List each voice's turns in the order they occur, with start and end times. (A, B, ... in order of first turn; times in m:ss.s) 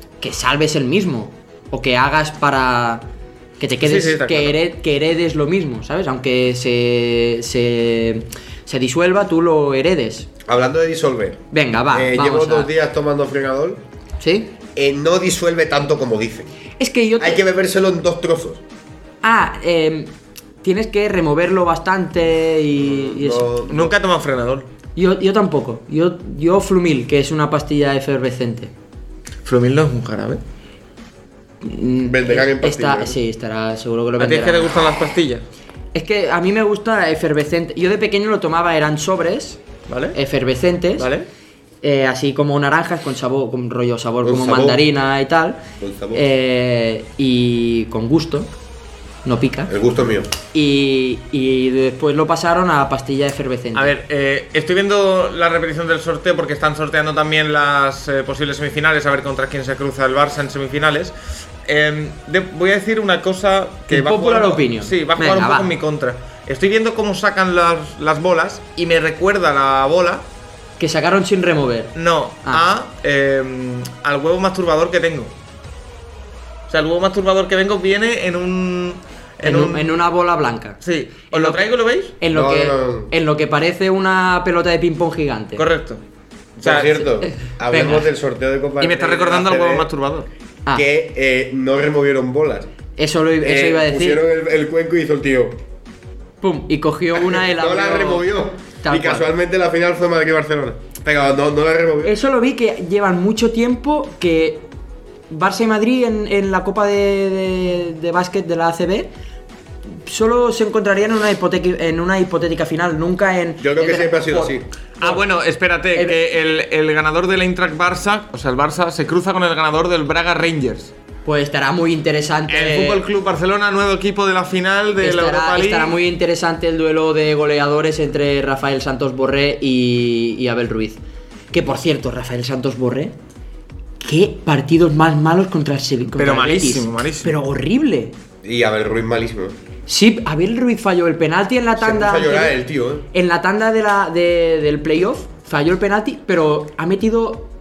0:00.2-0:10.3 A
0:03.8-0:04.6 B
0:10.4-0:13.8 C
0:11.5-0:12.7 A
0:14.2-0:14.5 A
0:14.8-0:16.5 C
0:16.8-0:17.4 A
0:17.2-0:18.6 C
0:19.2-0:20.1 A
0:20.6-0:23.5 A
0:22.8-0:24.0 C
0:23.7-0:24.7 B
0:25.0-0:28.7 A
0:29.4-0:30.4 B
0:31.6-0:34.7 A
0:32.0-0:33.2 C
0:34.2-0:35.4 B
0:35.9-0:39.6 A
0:39.9-0:40.2 B
0:40.1-0:41.1 A
0:41.0-0:41.3 B
0:41.8-0:48.5 A
0:44.2-0:44.8 C
0:45.8-0:46.2 C
0:49.2-0:49.7 A
0:49.7-0:50.3 C
0:50.5-0:53.9 A
0:53.7-1:01.1 B
1:01.6-1:10.3 B
1:03.9-1:05.7 A
1:10.8-1:11.9 A
1:11.9-1:15.3 B
1:16.7-1:19.9 B
1:19.4-1:20.8 A
1:20.8-1:22.1 B
1:21.3-1:25.6 A
1:22.3-1:23.1 C
1:25.6-1:26.0 B
1:26.6-1:29.9 C
1:26.6-1:27.1 B
1:27.7-1:28.0 A
1:28.8-1:30.3 B
1:30.7-1:32.7 C
1:33.0-1:34.2 A
1:33.4-1:35.6 C
1:36.4-1:38.3 A
1:37.1-1:42.1 C
1:38.8-1:39.3 A
1:42.0-1:44.7 A
1:45.3-1:49.1 A
1:50.0-1:55.2 A
1:53.6-1:54.7 C
1:55.0-2:00.9 B
2:01.2-2:03.0 A
2:02.5-2:05.9 B
2:05.0-2:11.0 A
2:11.5-2:13.1 A
2:14.0-2:18.1 A
2:16.2-2:17.3 B
2:18.4-2:19.6 C
2:19.9-2:22.6 A
2:21.8-2:23.1 C
2:23.1-2:27.5 A